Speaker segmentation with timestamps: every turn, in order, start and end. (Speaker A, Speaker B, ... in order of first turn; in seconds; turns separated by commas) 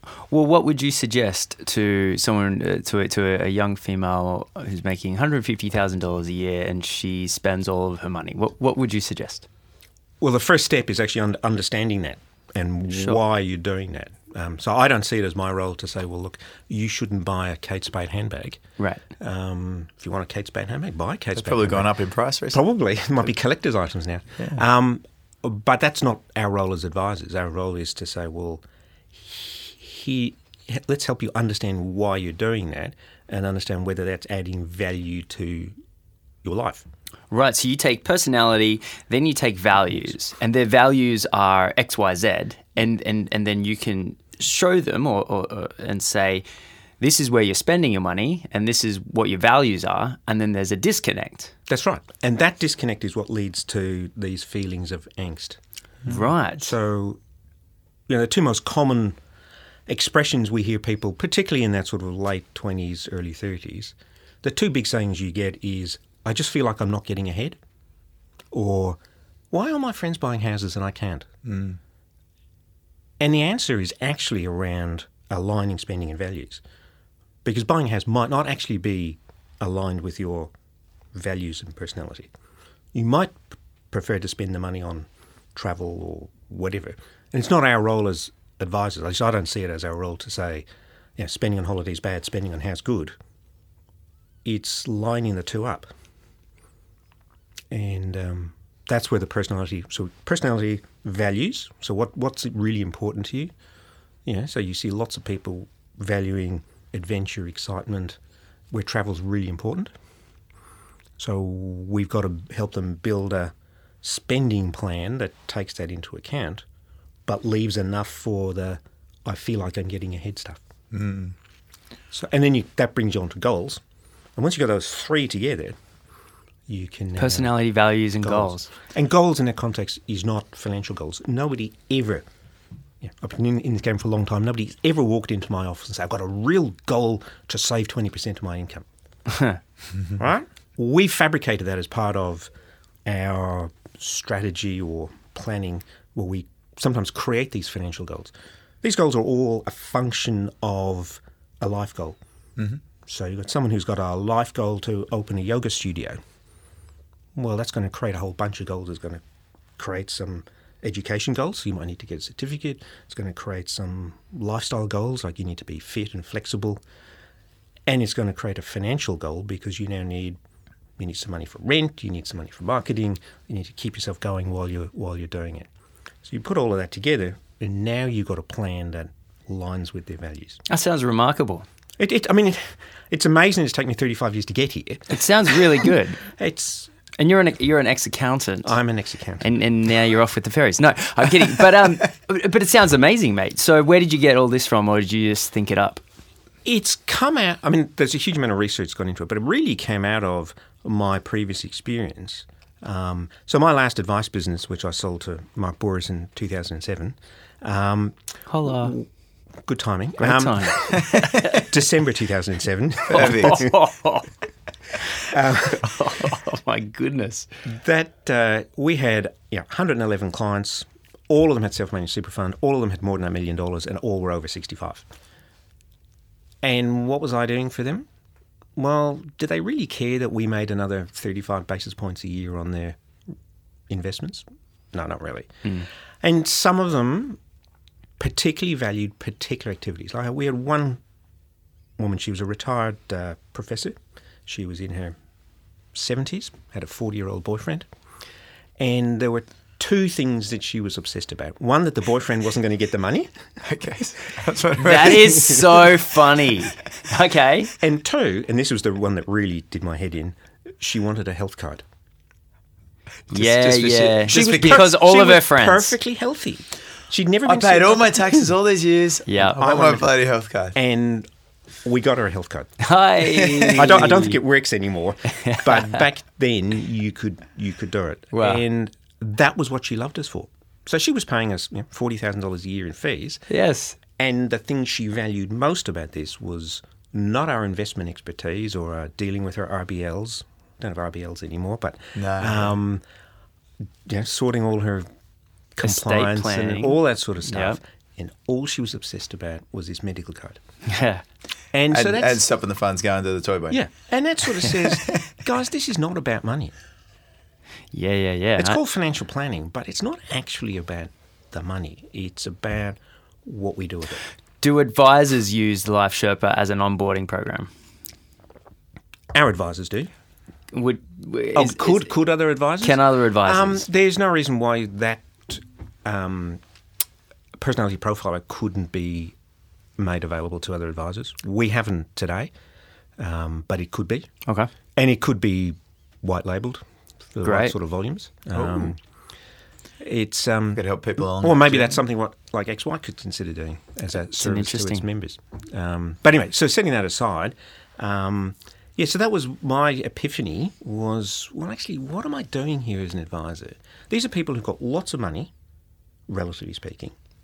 Speaker A: 0.3-9.5, Speaker B: 10.2-18.6, Speaker B: 19.2-21.9, Speaker C: 21.4-22.6, Speaker B: 22.5-35.7, Speaker B: 36.4-36.8, Speaker A: 37.3-46.4, Speaker A: 47.0-51.5, Speaker B: 51.7-55.6, Speaker A: 56.0-56.7, Speaker B: 56.6-57.2, Speaker B: 58.1-59.1, Speaker B: 59.9-67.6, Speaker B: 68.5-69.0, Speaker B: 69.5-71.3, Speaker C: 71.5-71.8, Speaker B: 73.2-76.6, Speaker B: 77.4-80.5, Speaker B: 81.1-82.3, Speaker B: 82.9-90.7, Speaker B: 91.2-93.1, Speaker B: 94.4-95.9, Speaker B: 97.7-103.5, Speaker B: 104.2-108.2, Speaker B: 108.7-109.9, Speaker B: 111.2-116.6, Speaker B: 117.2-120.6, Speaker C: 120.9-121.3, Speaker B: 122.1-123.8, Speaker B: 124.3-125.8, Speaker B: 126.7-127.5, Speaker A: 127.2-128.7, Speaker B: 128.2-132.2, Speaker B: 133.0-138.8, Speaker B: 140.2-142.5, Speaker B: 143.1-152.2, Speaker B: 153.1-156.2, Speaker B: 157.3-159.2, Speaker B: 159.8-166.8, Speaker B: 167.9-170.4, Speaker B: 171.0-175.7, Speaker B: 176.2-180.6, Speaker A: 180.7-181.6, Speaker B: 182.0-186.9, Speaker A: 185.1-186.2, Speaker A: 187.2-188.7, Speaker B: 188.6-189.5, Speaker A: 189.4-196.0, Speaker B: 196.6-209.1, Speaker A: 208.5-209.0, Speaker B: 209.7-213.7, Speaker A: 210.2-211.5, Speaker C: 210.9-211.6, Speaker C: 213.1-213.7, Speaker A: 213.1-214.3, Speaker B: 215.2-215.9, Speaker A: 215.6-217.5, Speaker B: 217.7-225.0, Speaker B: 226.6-228.1, Speaker B: 228.8-233.0, Speaker B: 233.9-237.4, Speaker B: 238.2-241.0, Speaker B: 242.0-245.2, Speaker B: 245.9-247.9, Speaker B: 248.8-253.3, Speaker C: 253.6-255.8, Speaker A: 254.8-257.7, Speaker B: 257.8-261.8, Speaker A: 263.3-265.9, Speaker C: 263.3-264.8, Speaker B: 264.2-268.4, Speaker C: 267.4-270.8, Speaker A: 269.3-269.6, Speaker B: 269.6-270.1, Speaker B: 270.7-271.3, Speaker B: 271.8-272.8, Speaker A: 272.8-274.4, Speaker C: 273.4-273.9, Speaker B: 273.7-283.4, Speaker A: 275.4-275.9, Speaker A: 278.3-278.6, Speaker A: 283.5-284.0, Speaker B: 284.1-293.0, Speaker C: 292.1-292.7, Speaker B: 294.0-295.1, Speaker B: 295.7-300.6, Speaker A: 295.8-297.8, Speaker A: 300.9-301.2, Speaker B: 301.7-302.4, Speaker C: 301.9-303.8, Speaker B: 303.7-306.7, Speaker A: 307.9-308.8, Speaker B: 308.6-314.2, Speaker A: 314.6-317.7, Speaker B: 319.3-320.1, Speaker A: 320.7-322.1, Speaker B: 321.5-326.6, Speaker A: 322.8-323.8, Speaker B: 327.6-329.3, Speaker B: 330.0-332.5, Speaker B: 333.2-334.3, Speaker B: 334.9-336.8, Speaker B: 337.3-339.0, Speaker A: 337.4-337.7, Speaker C: 338.5-338.9, Speaker B: 340.0-355.5, Speaker C: 340.7-342.0, Speaker A: 344.4-345.0, Speaker B: 356.3-357.1